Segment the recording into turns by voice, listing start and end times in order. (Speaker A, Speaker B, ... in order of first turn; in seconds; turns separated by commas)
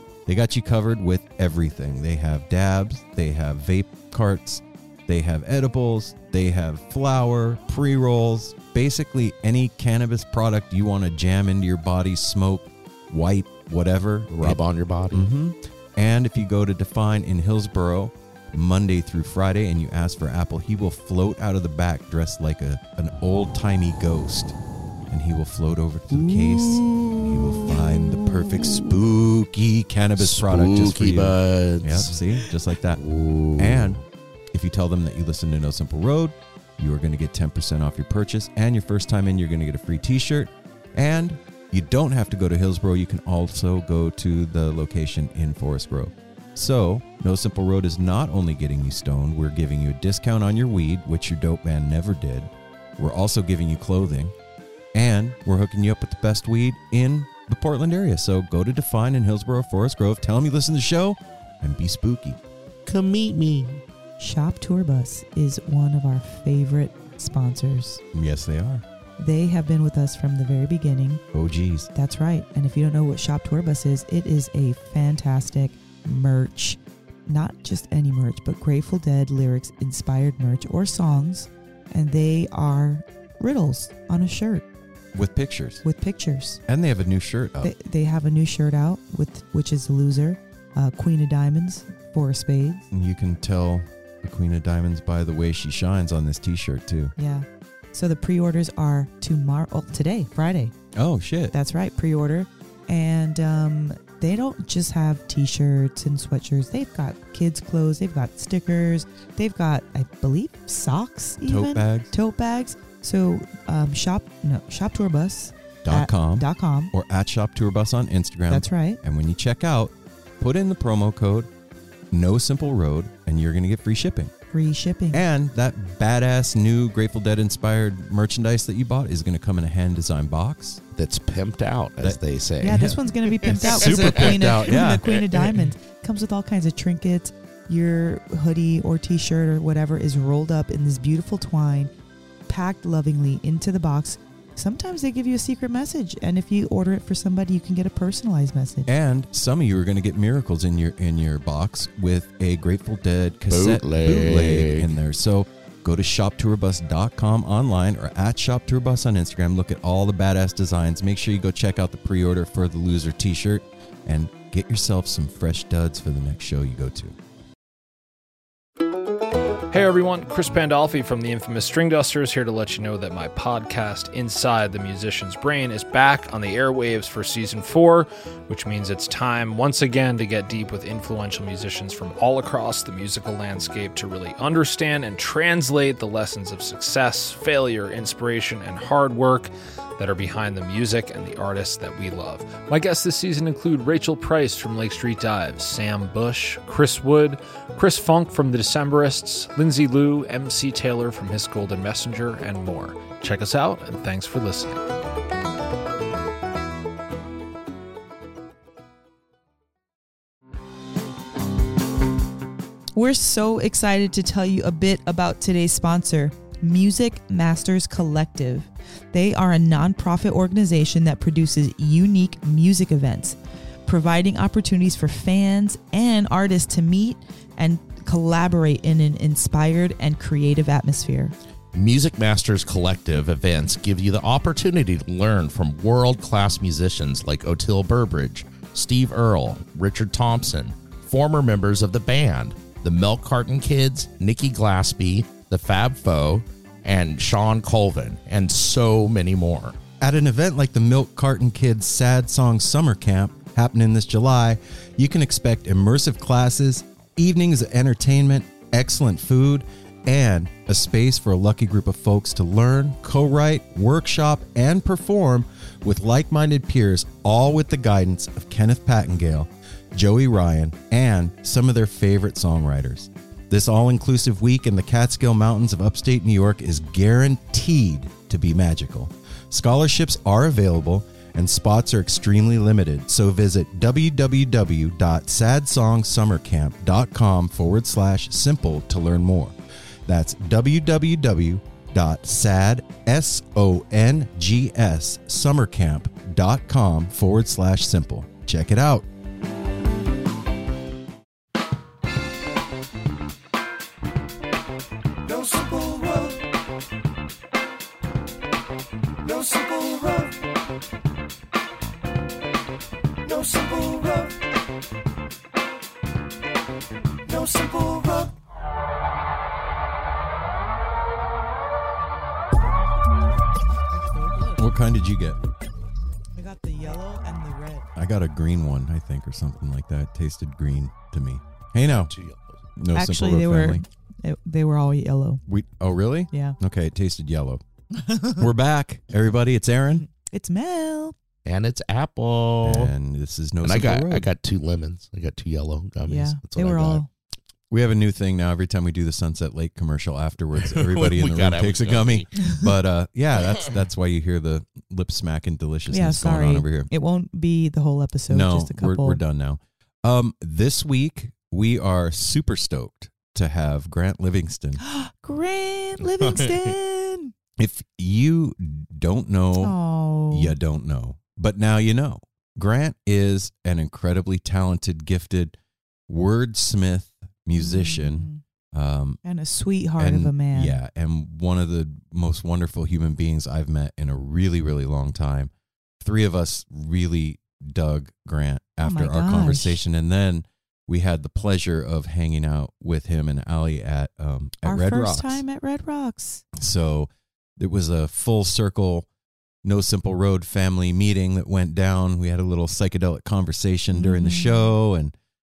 Speaker A: 0.3-24.6, Speaker B: 14.3-15.3, Speaker A: 25.1-33.0, Speaker B: 26.1-28.9, Speaker B: 30.2-34.0, Speaker A: 33.6-34.0, Speaker A: 34.5-54.4, Speaker A: 54.9-62.4, Speaker B: 62.9-63.8, Speaker C: 64.2-68.0, Speaker A: 68.1-68.8, Speaker C: 69.2-71.2, Speaker A: 71.3-71.9, Speaker C: 72.0-84.7, Speaker A: 85.2-85.8, Speaker C: 85.8-86.6, Speaker A: 86.7-87.7, Speaker C: 87.6-92.9, Speaker A: 92.9-97.1, Speaker C: 97.2-100.7, Speaker A: 101.0-101.5, Speaker C: 101.5-116.9, Speaker A: 111.4-112.1, Speaker A: 115.8-121.5, Speaker C: 118.5-119.0, Speaker A: 122.1-124.3, Speaker C: 124.5-125.2, Speaker A: 125.1-130.8, Speaker B: 131.0-135.6, Speaker C: 132.6-141.9, Speaker A: 132.7-133.0, Speaker A: 133.5-135.1, Speaker C: 142.5-148.9, Speaker A: 148.9-167.2, Speaker B: 153.5-154.9, Speaker D: 169.7-204.8, Speaker C: 212.9-231.3, Speaker B: 231.7-249.8, Speaker A: 250.0-289.6, Speaker A: 290.1-299.1, Speaker C: 313.5-314.1, Speaker C: 317.4-318.1, Speaker C: 323.9-324.6, Speaker A: 324.6-325.4, Speaker C: 326.4-327.9, Speaker A: 328.0-332.1, Speaker B: 332.1-332.6, Speaker A: 332.8-333.8, Speaker C: 332.9-335.4, Speaker A: 335.5-337.6, Speaker C: 336.3-336.6, Speaker C: 338.1-338.4, Speaker A: 338.4-340.1, Speaker C: 340.1-341.2, Speaker B: 341.4-342.9, Speaker A: 342.6-344.3, Speaker B: 343.6-347.0, Speaker C: 346.1-347.1, Speaker A: 347.7-356.9, Speaker B: 350.6-352.5, Speaker C: 355.9-359.2, Speaker A: 358.3-364.8, Speaker C: 364.8-367.3, Speaker B: 366.2-366.5, Speaker A: 367.6-369.8, Speaker C: 369.6-370.6, Speaker A: 370.3-375.6, Speaker A: 376.1-379.2, Speaker C: 377.6-378.4, Speaker C: 379.2-380.8, Speaker A: 380.0-395.4, Speaker C: 388.8-389.8, Speaker C: 394.6-396.4, Speaker A: 396.6-399.1, Speaker A: 399.6-405.1, Speaker C: 403.9-404.7